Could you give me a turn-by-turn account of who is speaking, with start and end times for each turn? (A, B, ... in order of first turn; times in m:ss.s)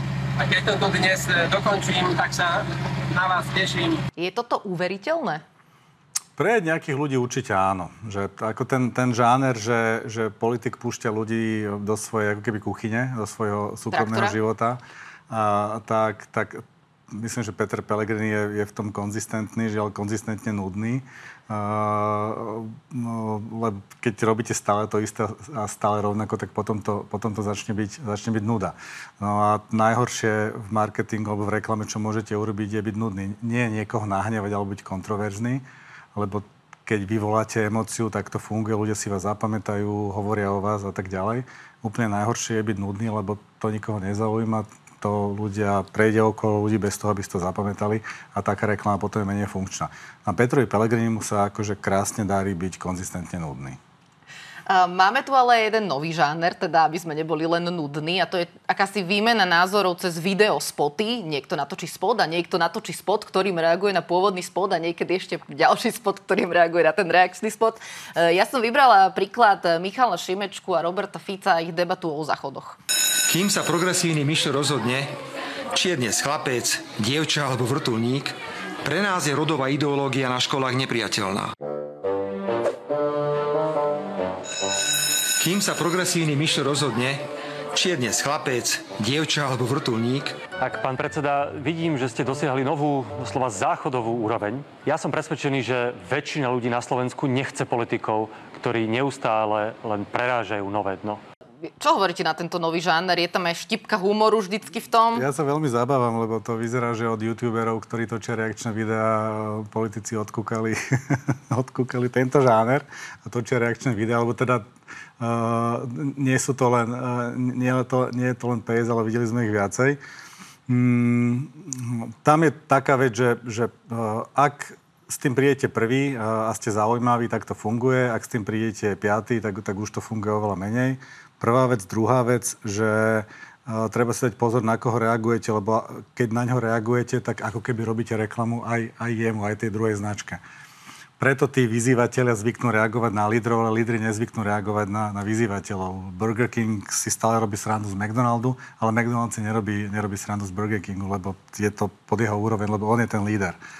0:00.4-0:04.0 A
0:04.2-0:05.4 B
0:06.4-0:53.8 C
0:13.9-0:14.4 B
0:54.7-1:12.8 B
1:13.3-1:15.1 D
1:15.7-1:21.5 D
1:25.4-1:30.4 D
1:30.6-1:41.2 E
1:41.8-1:45.3 B
1:45.1-1:54.6 C
1:55.2-2:00.0 C
2:00.7-2:20.4 C
2:21.2-2:33.6 C